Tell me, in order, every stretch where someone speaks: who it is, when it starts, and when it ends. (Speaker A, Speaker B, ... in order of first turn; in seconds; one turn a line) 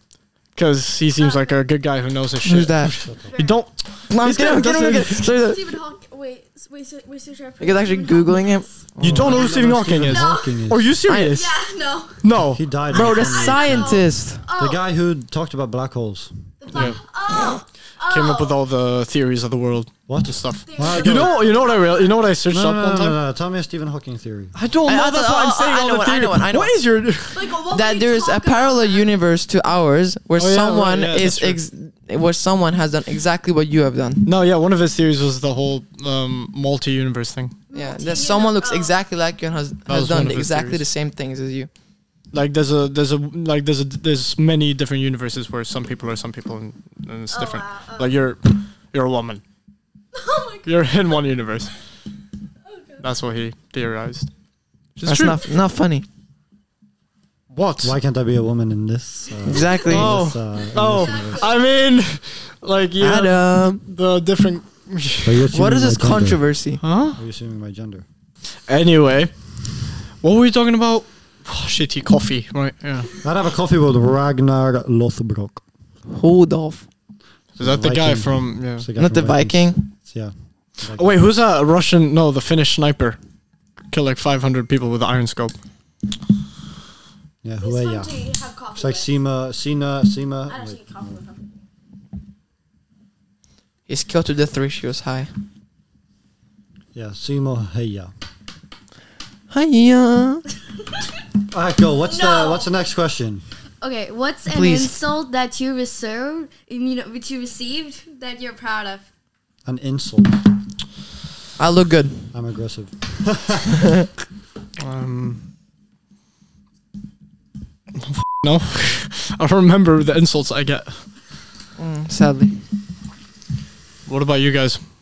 Speaker A: 0.5-5.2
Speaker B: 1.2-1.6
Speaker C: 2.4-3.1
Speaker D: 2.8-3.3
Speaker B: 3.2-3.7
Speaker C: 4.1-5.6
Speaker B: 4.6-10.5
Speaker C: 7.6-9.4
Speaker A: 9.0-11.5
Speaker D: 9.0-10.9
Speaker C: 11.1-11.3
Speaker B: 11.3-12.2
Speaker A: 12.2-12.6
Speaker D: 12.5-16.3
Speaker C: 12.9-14.4
Speaker B: 12.9-14.8
Speaker B: 16.6-18.6
Speaker A: 18.1-23.2
Speaker D: 20.1-21.4
Speaker B: 20.7-22.3
Speaker D: 22.5-24.5
Speaker A: 24.5-27.6
Speaker C: 24.9-26.8
Speaker B: 27.3-29.1
Speaker C: 27.7-34.3
Speaker A: 30.4-31.6
Speaker A: 34.2-37.6
Speaker B: 37.7-39.0
Speaker C: 37.7-41.7
Speaker A: 39.9-40.8
Speaker A: 42.3-49.4
Speaker B: 47.3-48.1
Speaker B: 50.1-50.7
Speaker A: 50.6-51.7
Speaker B: 52.7-53.0
Speaker A: 53.0-54.3
Speaker A: 55.0-55.4
Speaker C: 55.0-56.0
Speaker A: 57.5-57.9
Speaker D: 57.8-61.5
Speaker C: 59.5-60.2
Speaker A: 59.8-65.5
Speaker B: 61.0-61.5
Speaker C: 63.0-63.8
Speaker D: 65.2-66.4
Speaker C: 65.5-66.8
Speaker A: 66.8-67.2
Speaker D: 67.1-68.0
Speaker A: 68.7-69.3
Speaker A: 70.2-73.1
Speaker D: 73.2-75.6
Speaker C: 76.1-76.8
Speaker D: 77.5-81.2
Speaker A: 77.6-78.9
Speaker C: 78.9-79.9
Speaker A: 81.0-83.2
Speaker A: 83.9-85.5
Speaker D: 87.4-88.2
Speaker B: 87.6-89.1
Speaker D: 88.7-91.2
Speaker B: 90.5-91.4
Speaker C: 93.9-95.3
Speaker D: 96.9-98.1
Speaker C: 99.5-100.4
Speaker D: 101.5-103.4
Speaker B: 102.1-102.7
Speaker E: 103.8-109.0
Speaker C: 104.5-104.9
Speaker D: 109.6-110.5
Speaker C: 111.6-112.3
Speaker D: 112.3-113.8
Speaker A: 114.8-115.4
Speaker A: 118.0-121.0
Speaker C: 121.8-122.5
Speaker A: 124.0-124.8